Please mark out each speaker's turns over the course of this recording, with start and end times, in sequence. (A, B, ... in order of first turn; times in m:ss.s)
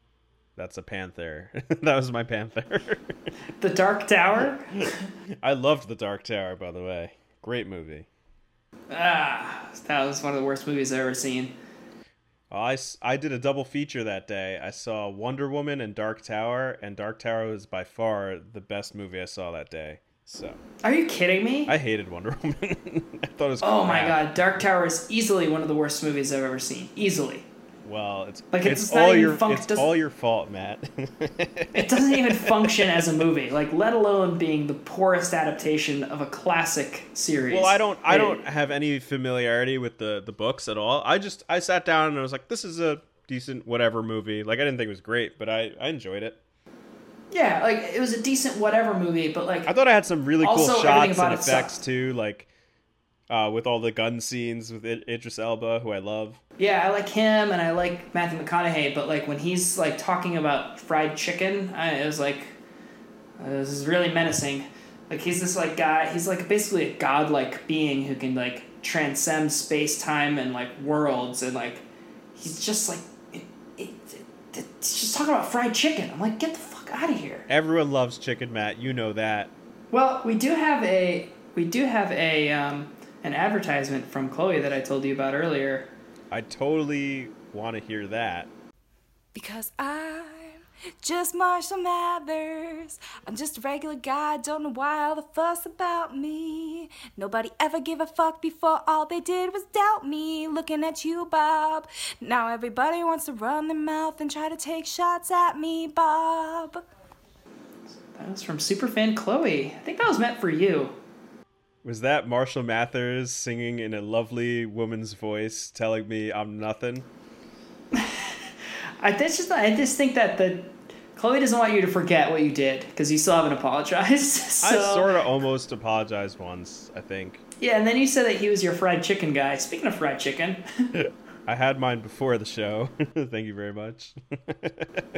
0:00.6-0:03.2 A
0:03.6-0:05.0 B
0:05.4-0:08.1 A
0:08.9-0:11.5 B
0:12.5-0:20.6 A
0:20.8-0:21.7 B
0:21.7-0:24.2 A
0:23.6-0:27.5 B
0:27.8-0:33.0 A
0:28.5-0:29.9 B
0:31.7-0:38.4 B
0:37.5-0:46.4 A
0:47.3-0:49.7 B
0:49.7-0:52.5 A
0:50.4-0:51.8 B
0:53.3-0:56.4 A
0:56.6-1:02.5 B
1:03.4-1:17.5 B
1:17.5-1:19.5 A
1:19.9-1:25.9 B
1:26.3-1:28.5 A
1:29.3-1:46.8 C
1:48.1-1:51.0 B
1:51.8-1:57.1 A
1:57.9-1:58.5 B
1:59.0-2:05.2 B
2:04.6-2:07.4 A
2:07.6-2:10.9 B
2:11.0-2:15.1 A